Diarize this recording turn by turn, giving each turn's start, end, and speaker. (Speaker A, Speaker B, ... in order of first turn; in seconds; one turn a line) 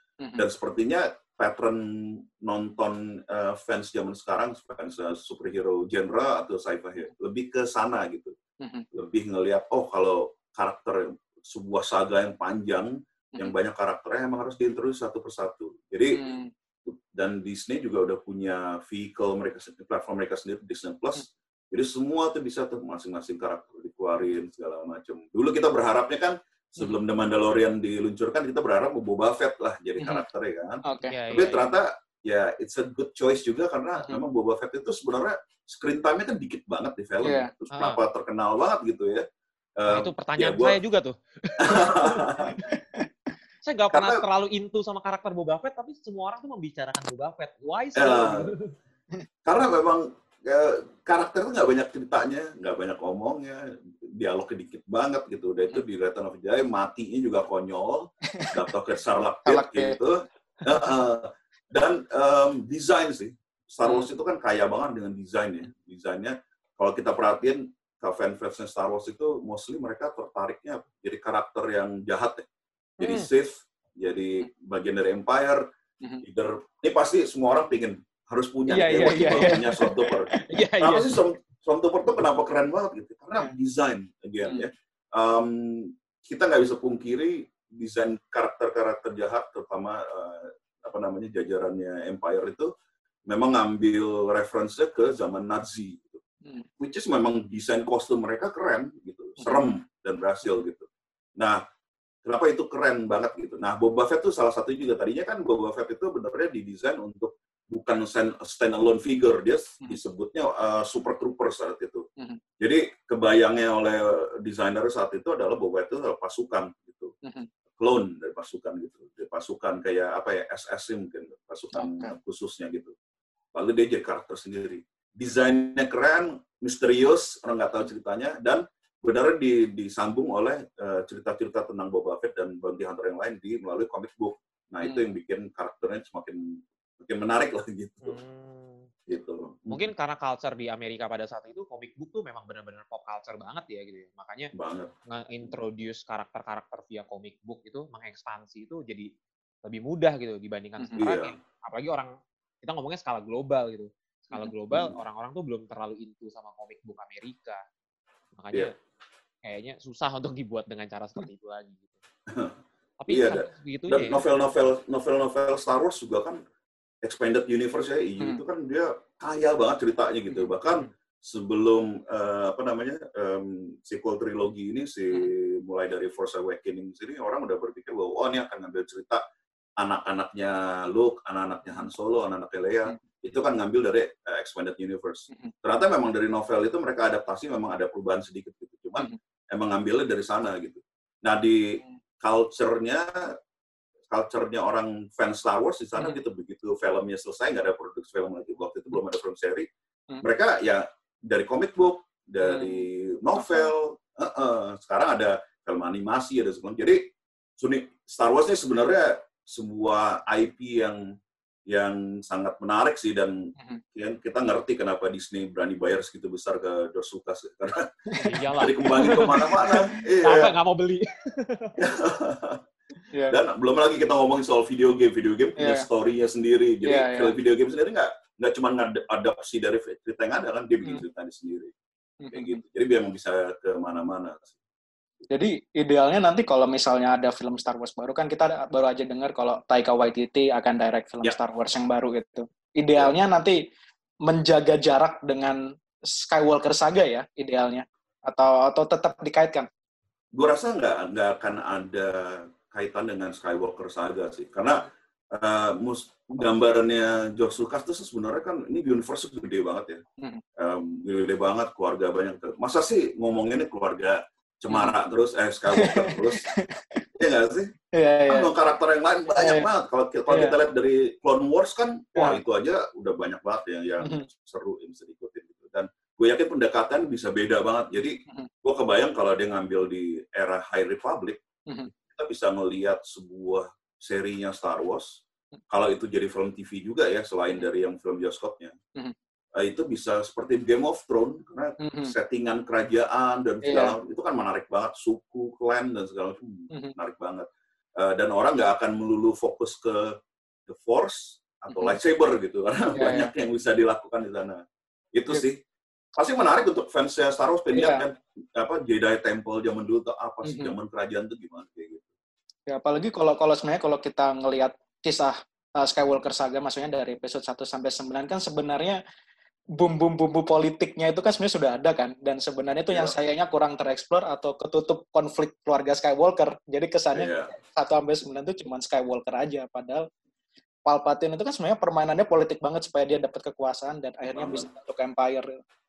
Speaker A: 0.4-8.3
Speaker B: 8.6-8.9
Speaker A: 8.9-16.3
Speaker B: 16.1-16.5
Speaker A: 16.9-39.2
Speaker B: 30.0-30.2
Speaker B: 30.9-31.1
Speaker C: 31.1-31.7
Speaker B: 37.2-37.5
Speaker C: 37.7-38.0
Speaker A: 39.8-40.8
Speaker C: 39.9-42.5
Speaker A: 41.6-42.6
Speaker B: 42.6-43.0
Speaker C: 43.7-48.7
Speaker A: 43.9-44.2
Speaker A: 48.0-48.5
Speaker A: 49.4-72.5
Speaker B: 59.4-60.0
Speaker A: 73.0-75.6
Speaker C: 73.0-73.3
Speaker A: 76.2-92.7
Speaker C: 78.7-81.2
Speaker B: 78.8-80.0
Speaker A: 93.3-96.2
Speaker A: 96.8-101.6
Speaker B: 99.4-99.7
Speaker A: 102.2-112.1
Speaker A: 112.6-117.1
Speaker A: 117.8-122.9
Speaker B: 121.7-122.1
Speaker A: 123.5-138.2
Speaker C: 138.0-138.9
Speaker A: 139.1-139.9
Speaker C: 139.7-144.5
Speaker A: 144.6-144.9
Speaker C: 145.1-149.1
Speaker C: 149.7-157.6
Speaker A: 151.0-151.3
Speaker A: 154.7-155.0
Speaker C: 158.3-158.8
Speaker C: 159.4-162.0
Speaker A: 162.3-162.6
Speaker C: 163.0-164.2
Speaker A: 163.1-166.4
Speaker A: 167.0-179.2
Speaker A: 179.8-193.4
Speaker A: 194.1-199.7
Speaker A: 200.2-211.0
Speaker B: 202.4-202.9
Speaker B: 203.4-203.7
Speaker A: 211.7-217.9
Speaker B: 218.1-219.8
Speaker C: 218.2-219.7
Speaker A: 218.5-220.5
Speaker C: 220.2-221.8
Speaker A: 221.8-222.6
Speaker B: 223.1-223.4
Speaker A: 223.3-231.7
Speaker B: 225.6-225.9
Speaker B: 226.8-227.3
Speaker B: 232.2-232.6
Speaker A: 232.3-234.6
Speaker B: 235.3-243.6
Speaker B: 244.2-249.7
Speaker A: 250.3-260.0
Speaker A: 260.6-266.4
Speaker B: 264.7-264.9
Speaker B: 265.7-267.0
Speaker A: 267.2-267.7
Speaker B: 267.9-268.5
Speaker A: 268.3-281.4
Speaker B: 269.4-269.7
Speaker B: 270.3-270.6
Speaker B: 272.1-272.4
Speaker A: 281.9-288.8
Speaker A: 289.6-304.6
Speaker B: 291.8-292.1
Speaker B: 293.6-293.9
Speaker B: 301.7-302.0
Speaker B: 302.9-303.3
Speaker A: 305.1-305.6
Speaker A: 306.1-312.1
Speaker B: 307.7-308.1
Speaker B: 310.4-310.8
Speaker B: 312.7-319.0
Speaker B: 319.8-330.1
Speaker A: 327.1-327.5
Speaker B: 330.9-335.5
Speaker A: 334.3-334.7